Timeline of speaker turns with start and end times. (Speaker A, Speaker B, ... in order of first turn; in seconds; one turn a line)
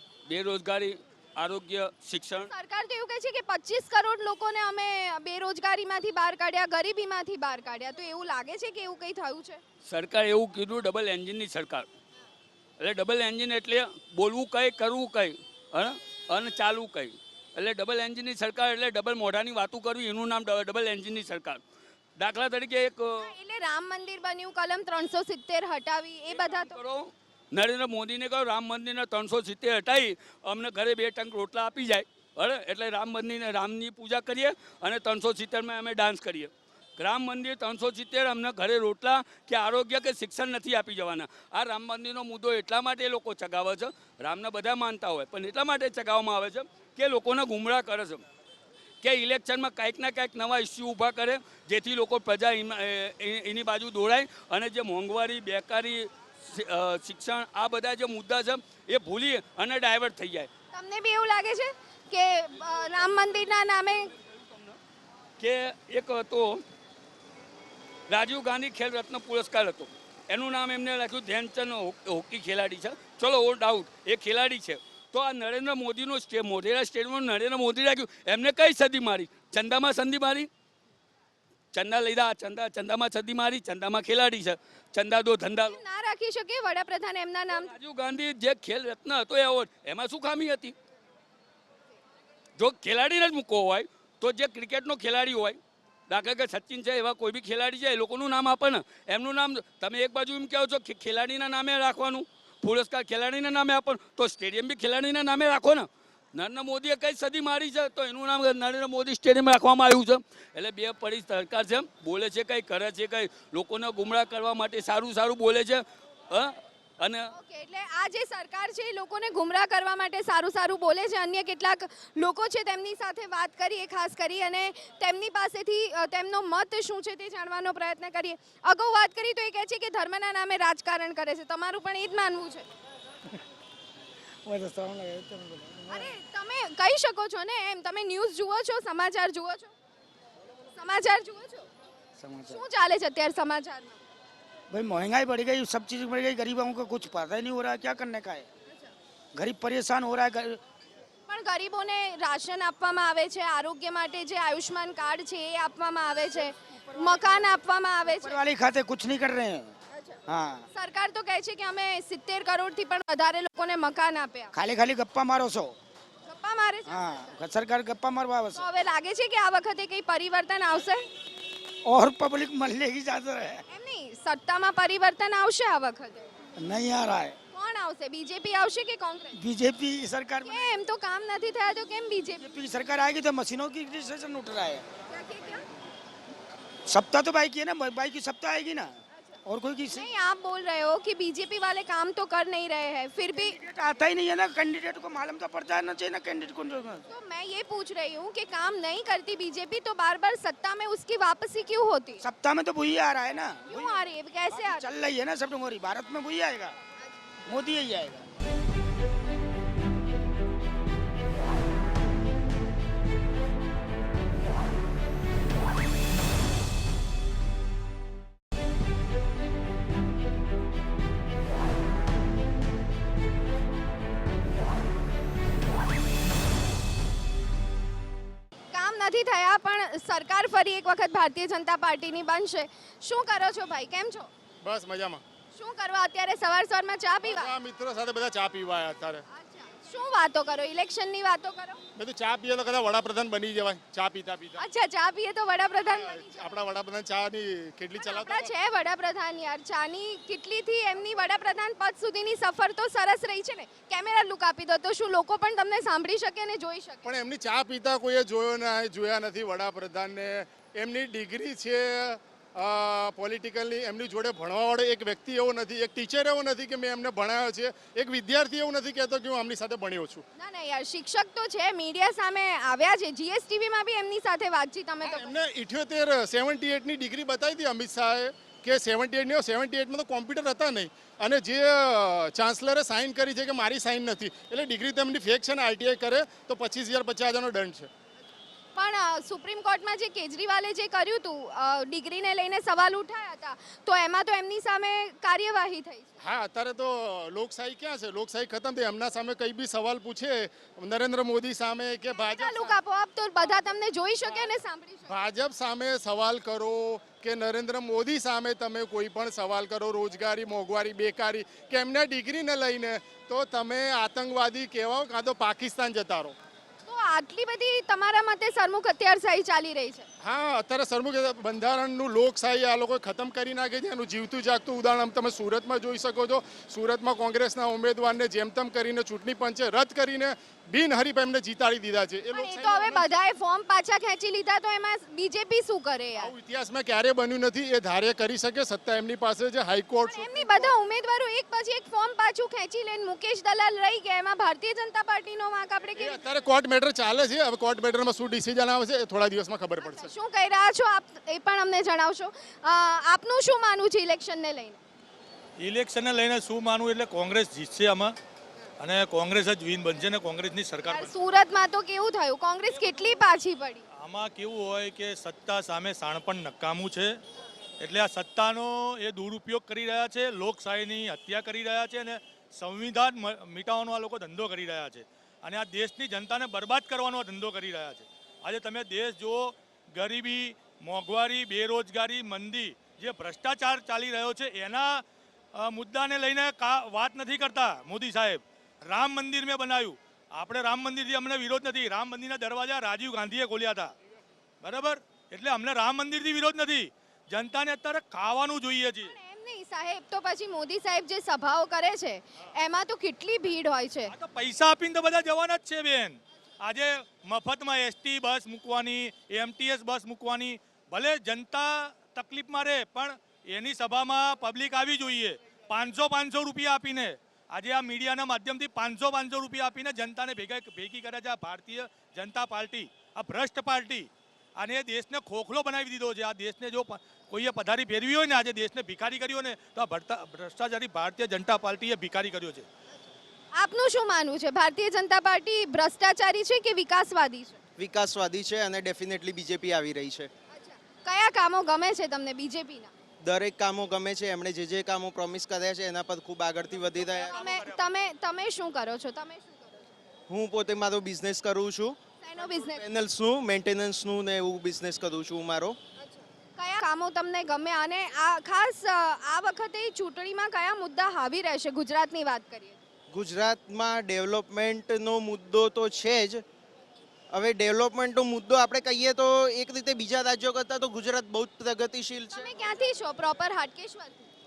Speaker A: 0.3-2.5
Speaker B: 2.5-9.6
Speaker A: 9.9-11.9
Speaker A: 12.8-21.6
Speaker A: 22.2-23.3
Speaker B: 23.1-26.7
Speaker A: 26.3-48.2
Speaker A: 49.0-60.5
Speaker B: 60.7-64.1
Speaker A: 64.2-64.8
Speaker A: 65.4-66.6
Speaker A: 68.1-80.5
Speaker A: 81.7-85.8
Speaker B: 85.7-87.7
Speaker A: 87.5-90.7
Speaker A: 92.6-117.3
Speaker B: 117.3-132.7
Speaker C: 134.4-136.1
Speaker B: 135.9-139.7
Speaker B: 140.8-141.7
Speaker C: 142.2-142.6
Speaker B: 142.5-144.0
Speaker C: 144.7-148.4
Speaker C: 149.4-150.6
Speaker B: 151.3-158.4
Speaker C: 156.6-157.5
Speaker C: 158.1-159.7
Speaker C: 160.3-160.6
Speaker B: 160.7-164.5
Speaker C: 164.5-165.8
Speaker B: 166.2-167.4
Speaker C: 166.9-168.7
Speaker B: 168.5-171.1
Speaker C: 171.9-173.6
Speaker B: 173.7-176.2
Speaker C: 176.6-177.3
Speaker B: 177.5-179.3
Speaker C: 179.3-180.7
Speaker B: 180.4-182.4
Speaker C: 182.4-184.8
Speaker B: 185.1-185.6
Speaker C: 186.9-188.9
Speaker C: 189.4-190.1
Speaker B: 189.9-193.6
Speaker C: 193.3-197.0
Speaker B: 197.1-202.2
Speaker C: 202.2-206.7
Speaker B: 203.7-204.8
Speaker C: 207.5-208.2
Speaker B: 228.7-234.3
Speaker D: 234.6-235.2
Speaker B: 235.5-237.5
Speaker D: 237.2-239.2
Speaker B: 239.3-241.8
Speaker D: 241.9-244.6
Speaker B: 244.6-246.6
Speaker D: 245.8-248.5
Speaker B: 248.0-257.1
Speaker D: 257.0-270.2
Speaker B: 270.4-275.3
Speaker D: 275.1-287.9
Speaker B: 288.7-296.2
Speaker D: 296.2-302.7
Speaker B: 302.1-305.1
Speaker D: 305.1-316.4
Speaker B: 316.9-320.1
Speaker D: 320.2-333.1
Speaker B: 332.3-336.3
Speaker D: 336.2-340.7
Speaker B: 340.0-346.2
Speaker D: 346.0-350.1
Speaker B: 349.8-354.8
Speaker E: 355.6-358.1
Speaker E: 358.8-361.1
Speaker B: 360.9-363.9
Speaker E: 362.7-363.2
Speaker E: 363.9-367.1
Speaker E: 367.8-385.0
Speaker E: 385.5-393.9
Speaker E: 394.6-399.1
Speaker B: 399.0-404.1
Speaker E: 404.1-432.6
Speaker B: 433.5-437.6
Speaker F: 437.8-440.3
Speaker B: 440.5-442.9
Speaker F: 443.2-447.6
Speaker B: 447.2-449.9
Speaker F: 450.3-455.8
Speaker B: 452.2-452.8
Speaker B: 456.0-462.8
Speaker F: 463.1-466.4
Speaker F: 467.3-472.5
Speaker B: 472.3-474.3